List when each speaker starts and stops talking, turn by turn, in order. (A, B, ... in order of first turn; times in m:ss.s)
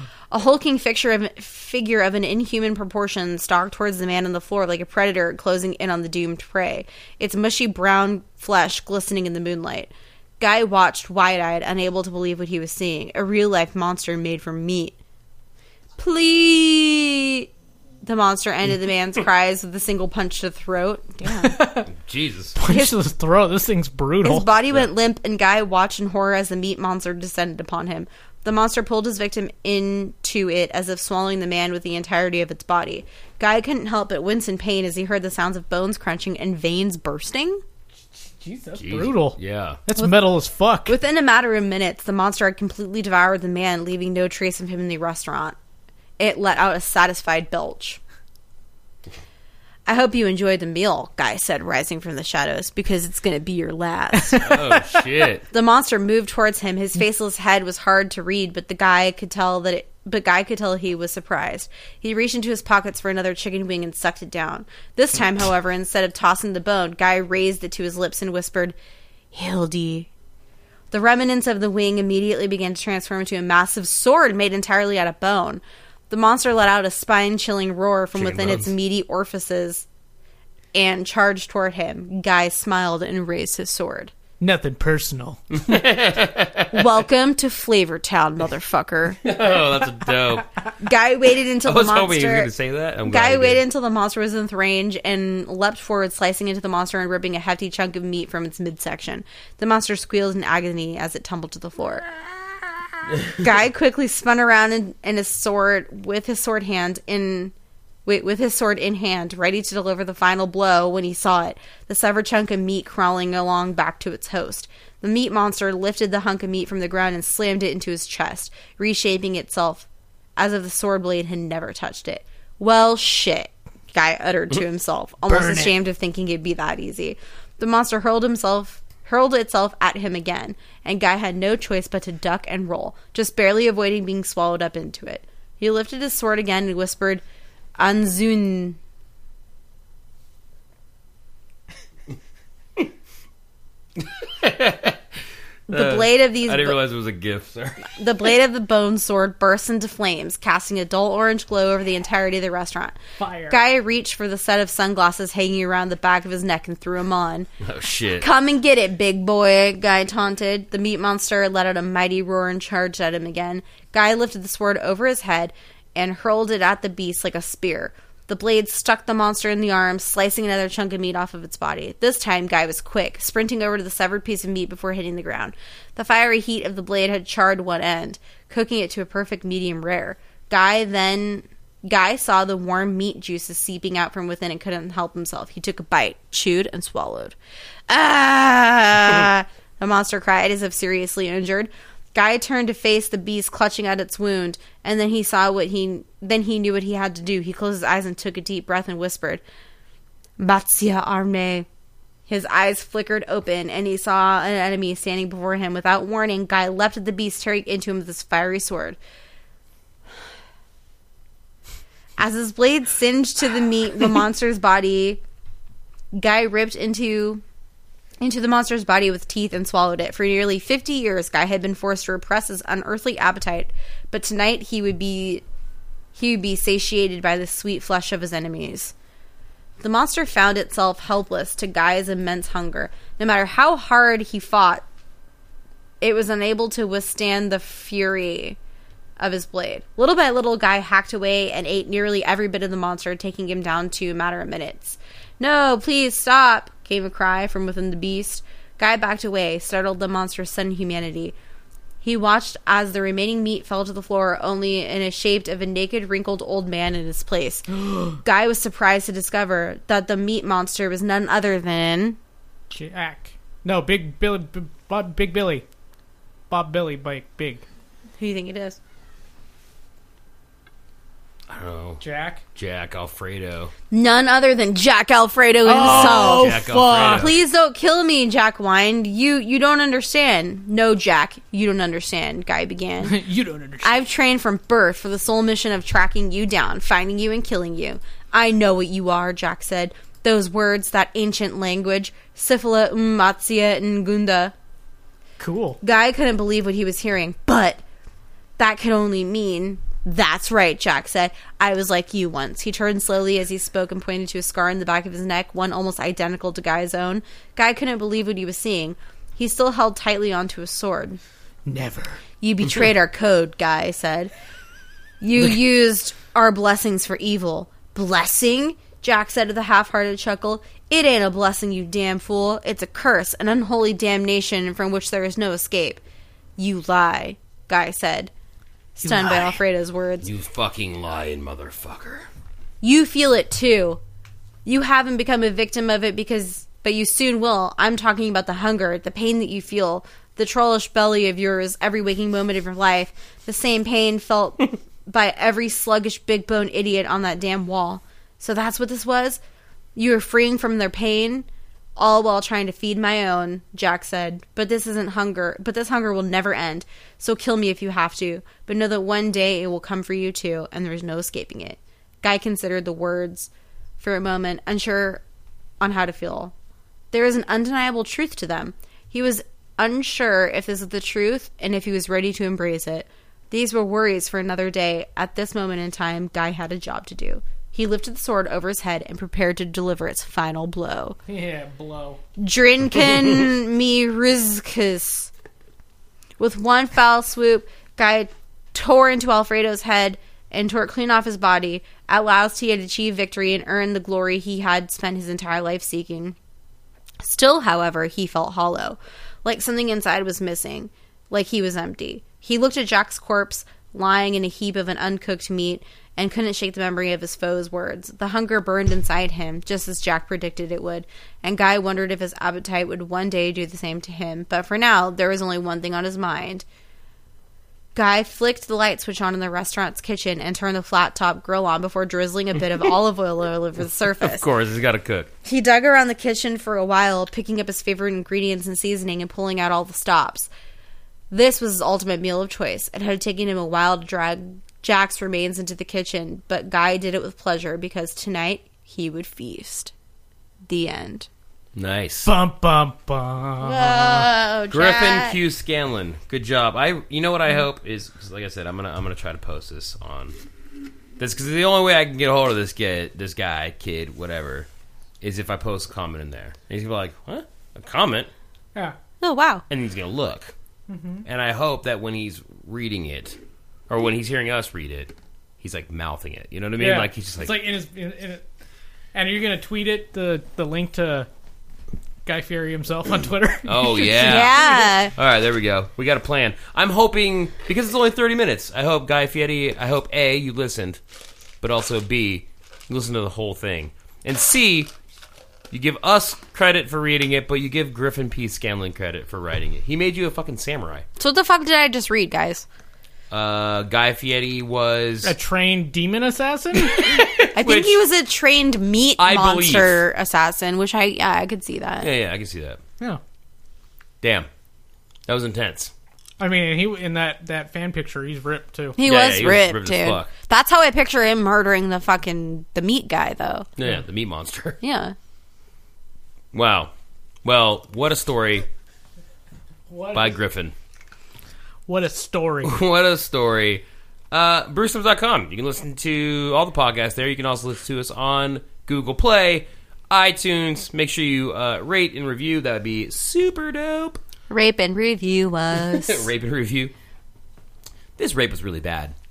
0:00.3-0:15.0 A
0:16.0-0:17.5 A
0:18.0-0:21.5 A
0:21.2-0:21.9 B
0:21.9-0:22.6 C
0:22.6-0:24.5 B
0:22.7-0:22.9 A
0:24.2-0:37.6 A
0:38.4-0:41.0 B
0:38.8-0:39.8 C
0:40.9-0:45.6 A
0:46.2-0:48.0 A
0:49.9-0:54.5 A
0:54.4-0:55.4 C
0:55.5-1:08.8 A
1:09.3-1:10.1 A
1:10.9-1:19.9 A
1:18.1-1:18.7 C
1:20.7-1:24.1 A
1:24.4-1:25.6 B
1:25.6-1:27.0 C
1:26.7-1:29.2 A
1:29.2-1:30.5 C
1:30.8-1:32.5 A
1:31.7-1:33.6 C
1:33.1-1:42.1 A
1:43.2-1:47.5 A
1:48.1-2:17.2 A
2:05.3-2:05.7 B
2:17.8-2:18.8 A
2:24.0-2:25.0 C
2:25.7-2:26.8 A
2:25.7-2:27.9 C
2:27.9-2:33.0 A
2:33.2-2:33.6 B
2:33.5-2:37.5 A
2:37.6-2:38.3 C
2:38.2-3:07.4 A
3:07.9-3:19.4 A
3:20.4-3:21.7 A
3:22.3-3:29.0 A
3:32.2-3:35.2 A
3:36.1-3:37.4 A
3:38.2-3:45.4 A
3:46.1-3:48.9 A
3:49.8-3:54.8 A
3:56.0-3:58.6 A
3:59.2-4:11.4 A
4:12.0-4:22.2 A
4:17.8-4:18.2 B
4:22.7-4:25.6 B
4:26.5-4:27.6 B
4:28.2-4:28.8 A
4:31.5-4:32.0 C
4:32.0-4:32.4 B
4:32.6-4:33.7 C
4:33.9-4:36.6 A
4:35.6-4:37.3 B
4:35.8-4:37.4 C
4:37.1-4:43.2 A
4:43.0-4:44.0 B
4:43.8-4:54.5 A
4:55.4-4:55.8 B
4:55.8-4:57.8 A
4:58.6-5:11.2 A
5:11.6-5:12.2 B
5:12.4-5:14.3 A
5:15.2-5:26.0 A
5:26.6-5:28.3 A
5:29.0-5:30.3 A
5:29.0-5:29.5 B
5:30.2-5:32.3 C
5:32.8-5:34.0 A
5:34.7-5:49.4 A
5:50.0-5:51.5 A
5:52.0-6:05.2 A
6:05.8-6:06.5 A
6:07.1-6:21.2 A
6:21.3-6:22.2 B
6:22.4-6:25.3 A
6:26.4-6:36.4 A
6:37.2-6:56.6 A
6:58.0-7:04.5 A
7:04.2-7:05.3 C
7:05.4-7:10.5 A
7:11.3-7:19.9 A
7:20.7-7:21.3 A
7:21.8-7:22.3 C
7:22.2-7:24.3 B
7:23.6-7:25.4 A
7:24.7-7:30.4 C
7:31.2-7:34.7 C
7:35.2-7:38.3 C
7:39.2-7:39.6 A
7:39.7-7:40.5 C
7:40.9-7:41.2 B
7:41.2-7:43.4 C
7:43.9-7:47.6 C
7:46.8-7:48.4 B
7:49.1-7:51.3 B
7:52.3-7:54.9 B
7:53.6-8:01.0 C
7:54.2-7:55.1 A
8:01.6-8:04.9 C
8:05.7-8:11.1 C
8:11.2-8:12.7 A
8:13.3-8:15.4 C
8:15.2-8:17.2 B
8:16.8-8:18.0 C
8:17.5-8:22.1 A
8:19.2-8:20.0 C
8:22.0-8:22.8 C
8:24.2-8:24.5 C
8:25.3-8:25.9 C
8:26.4-8:29.0 B
8:29.0-8:33.7 A
8:29.0-8:30.3 C
8:33.8-8:34.8 C
8:34.8-8:35.2 A
8:36.5-8:36.9 C
8:37.4-8:38.7 C
8:39.9-8:40.4 B
8:40.1-8:40.8 C
8:41.9-8:42.8 B
8:42.6-8:54.2 C
8:54.5-8:56.3 A
8:55.8-8:56.9 C
8:58.2-8:59.2 C